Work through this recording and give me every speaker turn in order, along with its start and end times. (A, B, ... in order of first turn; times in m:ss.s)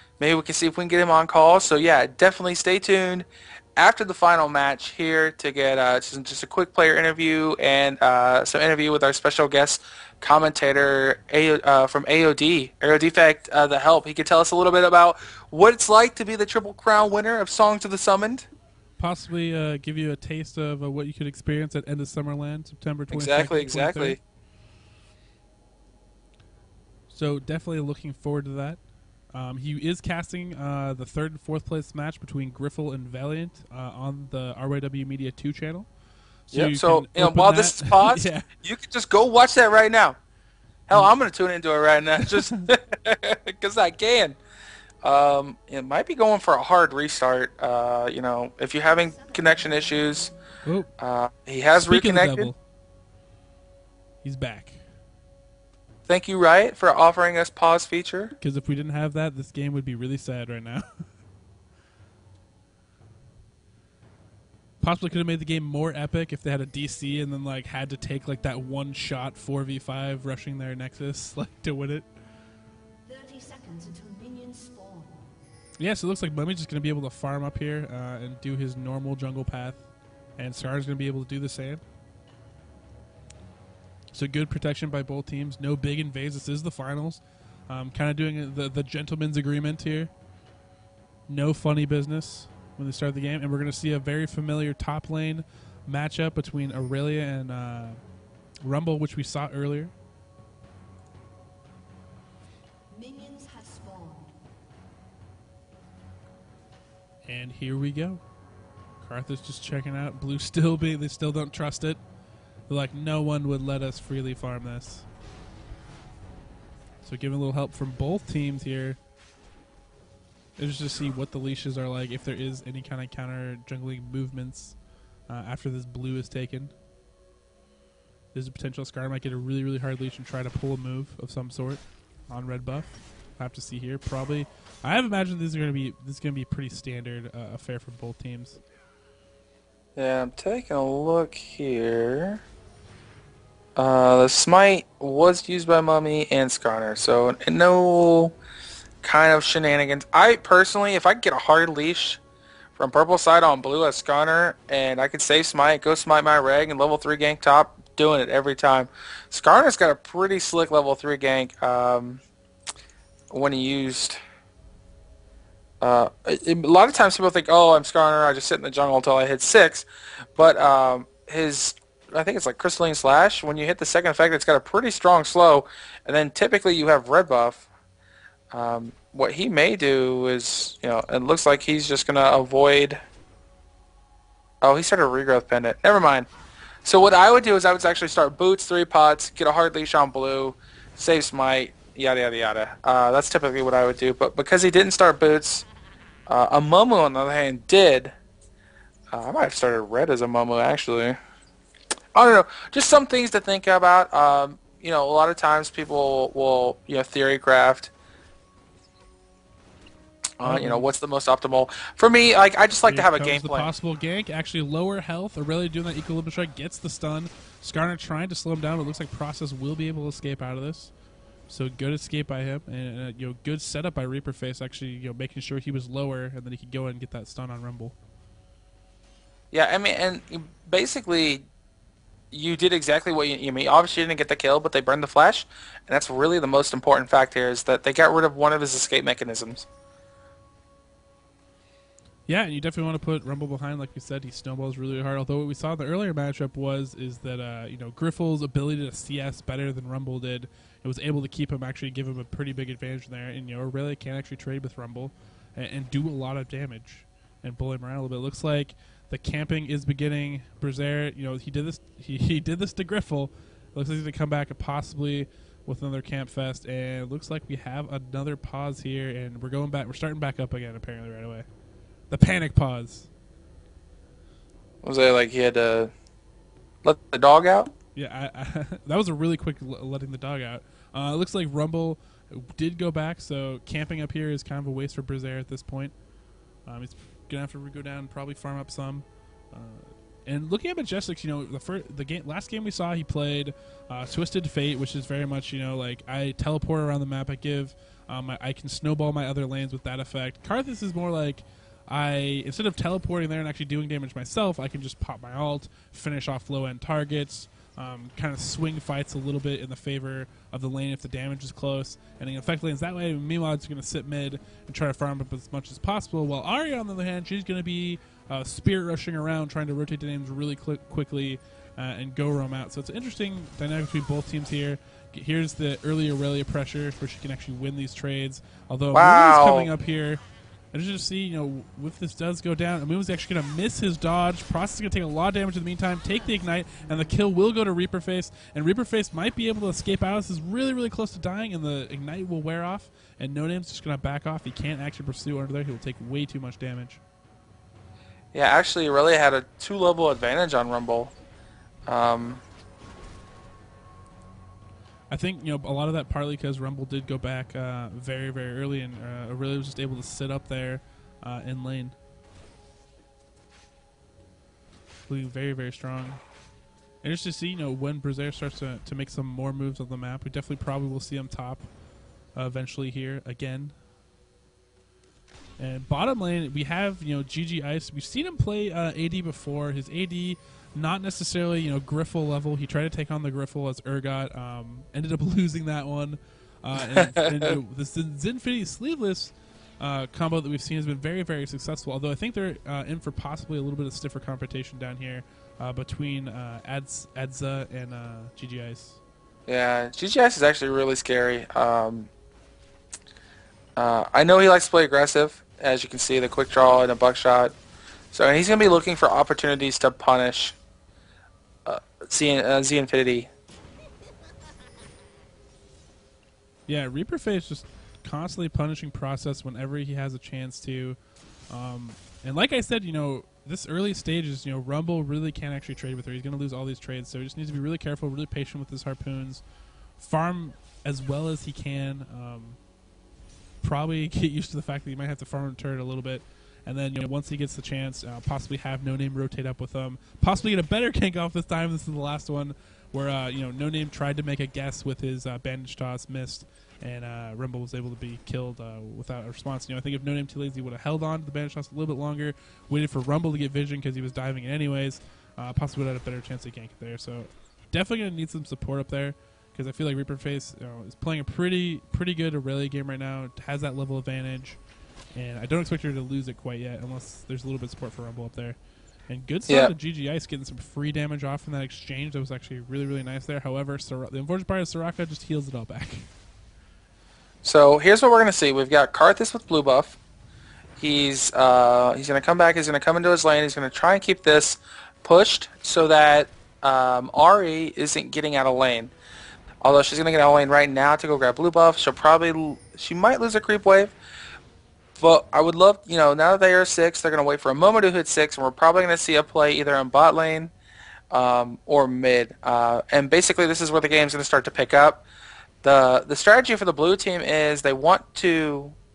0:00.2-0:18.5 A
0:19.0-0:24.2 B
0:23.1-0:24.2 A
0:27.1-0:28.8 B
0:29.3-0:35.9 B
0:36.5-0:38.5 B
0:36.5-0:40.2 A
0:40.9-0:44.4 A
0:42.3-0:42.7 B
0:45.0-0:50.3 A
0:48.9-0:50.4 C
0:50.6-0:50.9 B
0:51.0-0:52.5 A
0:51.7-0:52.6 B
0:54.2-0:54.8 B
0:56.1-0:58.4 A
0:58.4-1:01.1 B
1:04.8-1:12.1 B
1:13.1-1:15.4 C
1:15.8-1:19.8 B
1:20.4-1:21.8 B
1:24.1-1:30.1 B
1:31.3-1:38.0 B
1:38.6-1:39.9 B
1:42.9-1:44.4 C
1:47.2-1:48.2 B
1:49.0-1:52.0 B
1:52.7-1:55.1 B
1:57.0-1:59.0 B
2:00.6-2:04.8 B
2:05.3-2:06.7 B
2:08.3-2:18.6 B
2:20.0-2:22.4 A
2:23.8-2:28.4 A
2:29.0-2:32.2 A
2:32.8-2:42.2 A
2:43.3-2:44.2 A
2:45.8-2:49.9 A
2:50.4-2:57.7 A
2:58.5-3:03.0 A
3:04.6-3:06.3 A
3:06.8-3:15.7 A
3:16.3-3:18.2 A
3:19.1-3:21.2 A
3:22.2-3:27.9 A
3:30.4-3:33.7 A
3:30.4-3:30.8 B
3:32.9-3:40.9 B
3:41.5-3:48.0 B
3:49.5-3:51.5 A
3:52.3-3:59.7 A
4:02.3-4:31.5 B
4:32.1-4:33.1 B
4:34.8-4:35.9 A
4:36.8-4:37.7 A
4:38.0-4:45.9 B
4:46.7-5:30.2 B
5:28.9-5:29.7 A
5:30.7-5:47.0 B
5:48.3-5:51.1 A
5:51.9-5:52.4 A
5:55.1-6:02.0 B
6:05.1-6:06.2 B
6:07.0-6:11.7 B
6:12.4-6:13.8 B
6:15.6-6:39.0 B
6:26.8-6:27.6 A
6:39.5-6:42.1 A
6:43.8-6:47.5 A
6:48.1-6:50.6 A
6:51.6-6:53.3 A
6:56.7-7:01.0 B
7:01.5-7:09.4 B
7:10.0-7:12.6 B
7:13.6-7:44.6 B
7:45.1-7:48.6 B
7:49.1-7:56.1 B
7:49.5-7:49.7 A
7:57.4-8:00.0 A
8:00.8-8:08.9 A
8:09.6-8:13.9 A
8:15.0-8:20.5 A
8:21.1-8:25.0 A
8:25.6-8:28.8 A